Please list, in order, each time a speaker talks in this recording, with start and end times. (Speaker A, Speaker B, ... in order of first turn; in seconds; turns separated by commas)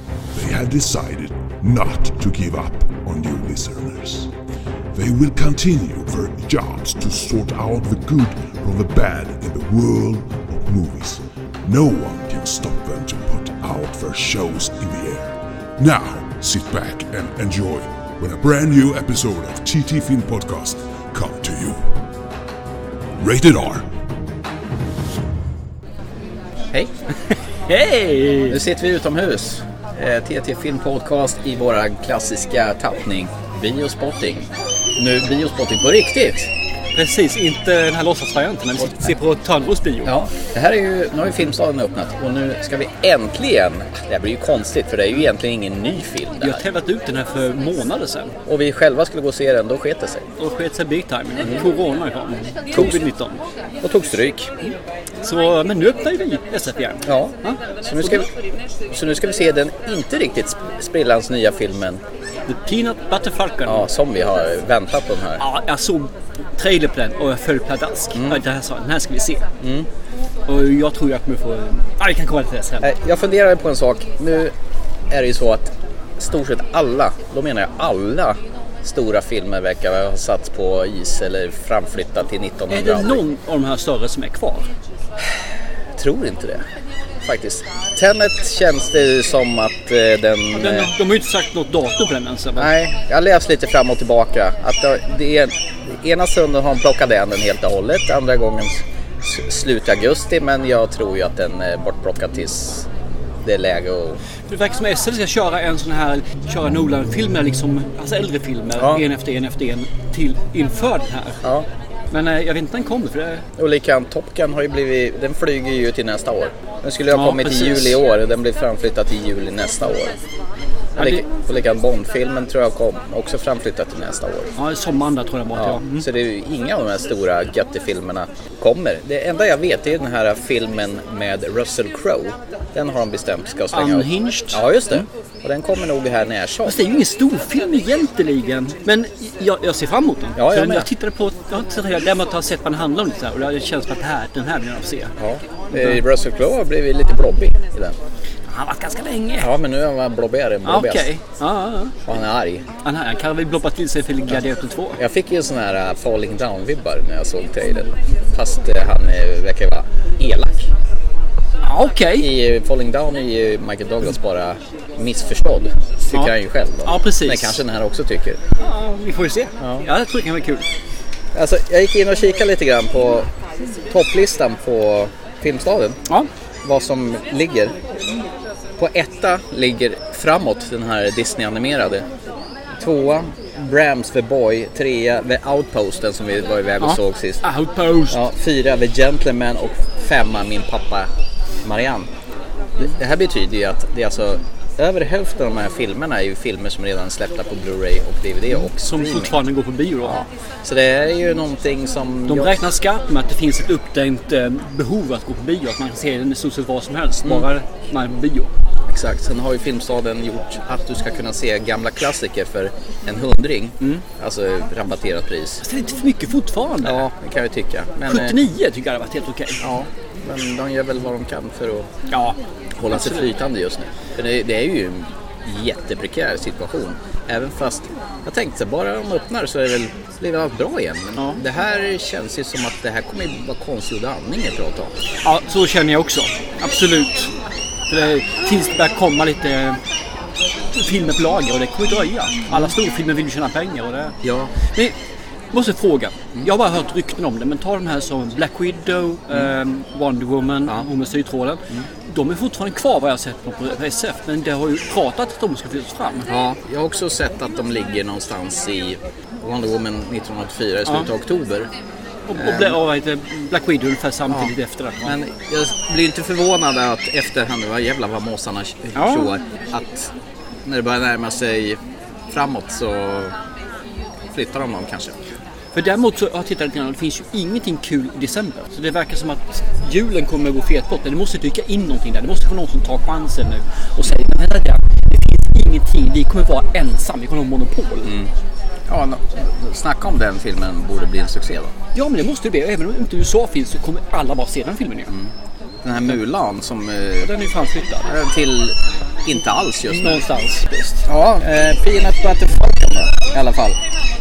Speaker A: 0.3-4.3, Speaker A: 4.9-21.8, Speaker A: 23.2-23.9, Speaker B: 27.6-28.6, Speaker C: 28.5-36.5, Speaker B: 36.9-40.2, Speaker C: 40.0-46.6, Speaker B: 46.4-48.4, Speaker C: 48.5-50.3, Speaker B: 50.4-53.4, Speaker C: 51.4-51.7, Speaker C: 52.7-53.0, Speaker C: 53.8-54.5, Speaker B: 54.7-58.3, Speaker C: 57.0-58.3, Speaker C: 58.9-62.0, Speaker B: 62.5-63.9, Speaker C: 63.6-65.4, Speaker B: 65.4-69.5, Speaker C: 68.2-68.4, Speaker C: 69.6-69.9, Speaker B: 70.5-72.9, Speaker C: 72.8-74.5, Speaker C: 75.1-83.2, Speaker B: 82.7-84.7, Speaker C: 86.0-86.7, Speaker C: 87.2-90.9, Speaker B: 90.5-92.7, Speaker C: 92.6-102.9, Speaker C: 103.4-104.2, Speaker B: 104.5-111.4, Speaker C: 108.8-109.1, Speaker B: 112.1-113.5, Speaker C: 113.6-120.2, Speaker B: 117.1-118.0, Speaker B: 121.0-121.2, Speaker C: 121.0-124.5, Speaker B: 124.6-126.1, Speaker C: 125.5-136.8, Speaker B: 133.7-135.0, Speaker B: 136.6-145.1, Speaker C: 140.4-140.9, Speaker C: 145.2-148.0, Speaker B: 145.7-146.0, Speaker B: 148.5-149.5, Speaker C: 149.4-151.1, Speaker B: 150.7-152.0, Speaker C: 152.1-152.7, Speaker B: 152.8-155.0, Speaker C: 155.0-160.7, Speaker B: 161.6-162.3, Speaker C: 162.1-168.4, Speaker B: 166.8-167.6, Speaker B: 168.6-170.7, Speaker C: 169.6-169.9, Speaker C: 171.3-173.3, Speaker C: 173.9-176.0, Speaker C: 176.6-177.8, Speaker C: 178.8-182.1, Speaker C: 182.7-187.4, Speaker B: 186.8-188.2, Speaker C: 188.1-191.1, Speaker C: 191.6-192.1, Speaker C: 192.8-199.4, Speaker B: 198.5-200.2, Speaker C: 200.0-202.7, Speaker B: 202.3-208.5, Speaker C: 208.9-215.6, Speaker B: 215.6-217.1, Speaker C: 216.8-218.4, Speaker B: 218.1-219.6, Speaker C: 219.6-221.9, Speaker B: 222.1-222.4, Speaker C: 222.8-234.9, Speaker B: 222.9-223.3, Speaker B: 231.2-231.4, Speaker B: 235.2-237.3, Speaker B: 237.9-239.8, Speaker B: 240.7-245.0, Speaker C: 242.5-242.7, Speaker C: 244.2-244.6, Speaker B: 245.5-256.3, Speaker C: 256.3-261.7, Speaker B: 262.3-265.2, Speaker C: 262.3-262.8, Speaker C: 264.3-270.1, Speaker B: 268.9-269.3, Speaker C: 270.6-273.4, Speaker C: 274.3-275.2, Speaker B: 275.7-288.2, Speaker C: 288.1-288.3, Speaker C: 288.9-291.7, Speaker B: 291.9-295.2, Speaker C: 295.8-297.3, Speaker B: 297.2-298.1, Speaker C: 298.1-300.3, Speaker B: 299.9-301.1, Speaker C: 301.1-303.8